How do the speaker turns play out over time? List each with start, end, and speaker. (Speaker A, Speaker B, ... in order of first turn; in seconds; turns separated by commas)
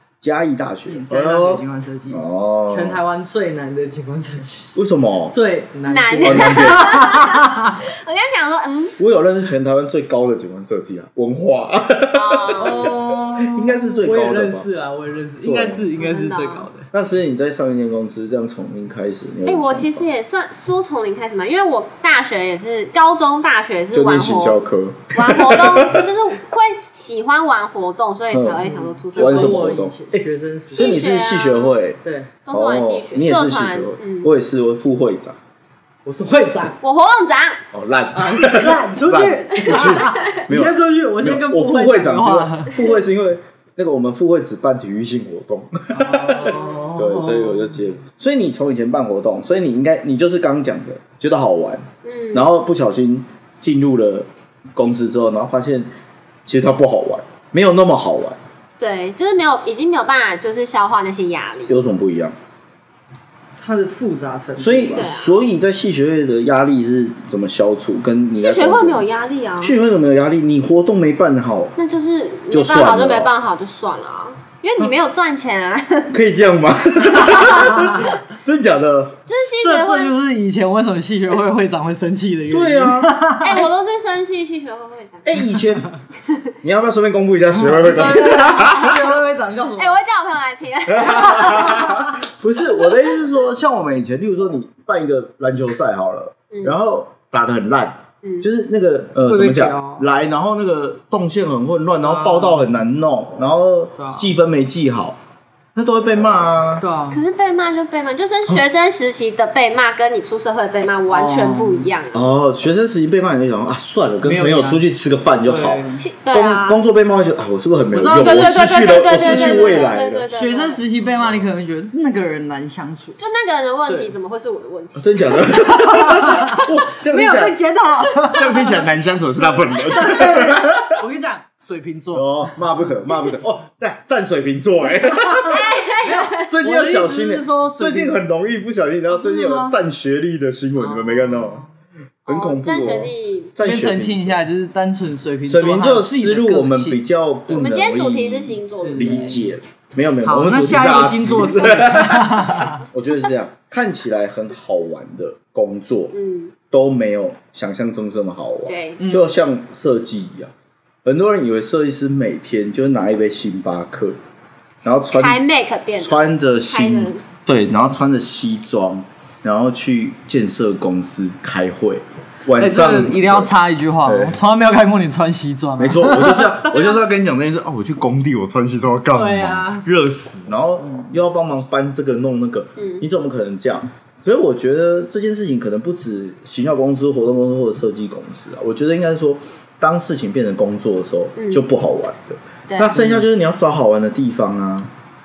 Speaker A: 0.2-3.0, Speaker B: 0.9-4.8, Speaker A: 4.8-5.4, Speaker B: 5.3-7.7, Speaker C: 5.9-9.0, Speaker A: 6.2-7.1, Speaker A: 9.0-14.7, Speaker C: 12.1-12.9, Speaker B: 12.6-16.9, Speaker A: 15.4-15.9, Speaker C: 16.0-16.7, Speaker A: 16.9-20.1, Speaker C: 19.4-24.6, Speaker A: 23.9-26.1, Speaker C: 25.1-29.6, Speaker A: 28.3-28.6, Speaker B: 28.6-30.9, Speaker A: 29.1-35.4, Speaker C: 30.7-31.7, Speaker B: 32.0-32.3, Speaker C: 32.5-34.3, Speaker B: 36.0-36.8, Speaker C: 36.8-37.6, Speaker A: 37.7-55.9, Speaker B: 38.1-42.8, Speaker C: 39.7-40.1, Speaker B: 45.9-47.8, Speaker C: 52.0-52.5, Speaker A: 56.5-58.4, Speaker C: 58.8-61.9, Speaker A: 61.7-62.4, Speaker B: 63.6-65.0, Speaker A: 64.6-69.0, Speaker C: 64.9-65.4, Speaker C: 68.3-69.8, Speaker A: 69.6-71.7, Speaker C: 71.8-76.1, Speaker A: 72.5-73.3, Speaker A: 76.1-79.2, Speaker C: 77.3-77.6, Speaker C: 79.3-80.2, Speaker B: 79.6-83.6, Speaker A: 82.5-83.2, Speaker C: 83.4-85.5, Speaker A: 85.2-85.9, Speaker A: 86.6-89.0, Speaker B: 87.6-90.0, Speaker C: 89.8-92.1, Speaker A: 90.9-105.2, Speaker B: 99.2-100.1, Speaker B: 102.0-102.6, Speaker B: 104.0-104.3, Speaker A: 105.8-106.8, Speaker B: 106.8-107.2, Speaker C: 107.1-112.3, Speaker B: 111.1-111.9, Speaker A: 112.1-120.3, Speaker B: 114.2-114.8, Speaker B: 115.5-116.0, Speaker C: 116.0-116.8, Speaker B: 117.9-123.2, Speaker C: 118.1-120.8, Speaker A: 121.2-121.4, Speaker C: 123.2-125.5, Speaker A: 125.0-127.6, Speaker B: 125.7-128.8, Speaker A: 128.2-131.0, Speaker B: 129.9-132.5, Speaker A: 132.1-135.7, Speaker C: 135.5-136.4, Speaker B: 136.0-138.2, Speaker A: 136.4-141.6, Speaker B: 139.1-139.8, Speaker B: 140.8-141.7, Speaker A: 142.3-144.4, Speaker C: 142.3-143.5, Speaker B: 143.6-147.0, Speaker A: 145.5-156.1, Speaker C: 147.5-149.4, Speaker B: 148.8-149.5, Speaker B: 150.2-152.8, Speaker C: 156.1-156.5, Speaker A: 156.7-160.5, Speaker C: 158.7-159.0, Speaker B: 159.0-159.3, Speaker A: 161.0-164.2, Speaker A: 164.8-165.4, Speaker C: 165.2-167.2, Speaker A: 166.0-173.5, Speaker B: 172.6-176.9, Speaker A: 174.0-174.4, Speaker A: 175.8-194.9, Speaker B: 179.1-179.9, Speaker B: 180.8-181.1, Speaker C: 182.8-183.0, Speaker C: 191.4-191.6, Speaker C: 192.7-192.9, Speaker B: 192.9-193.2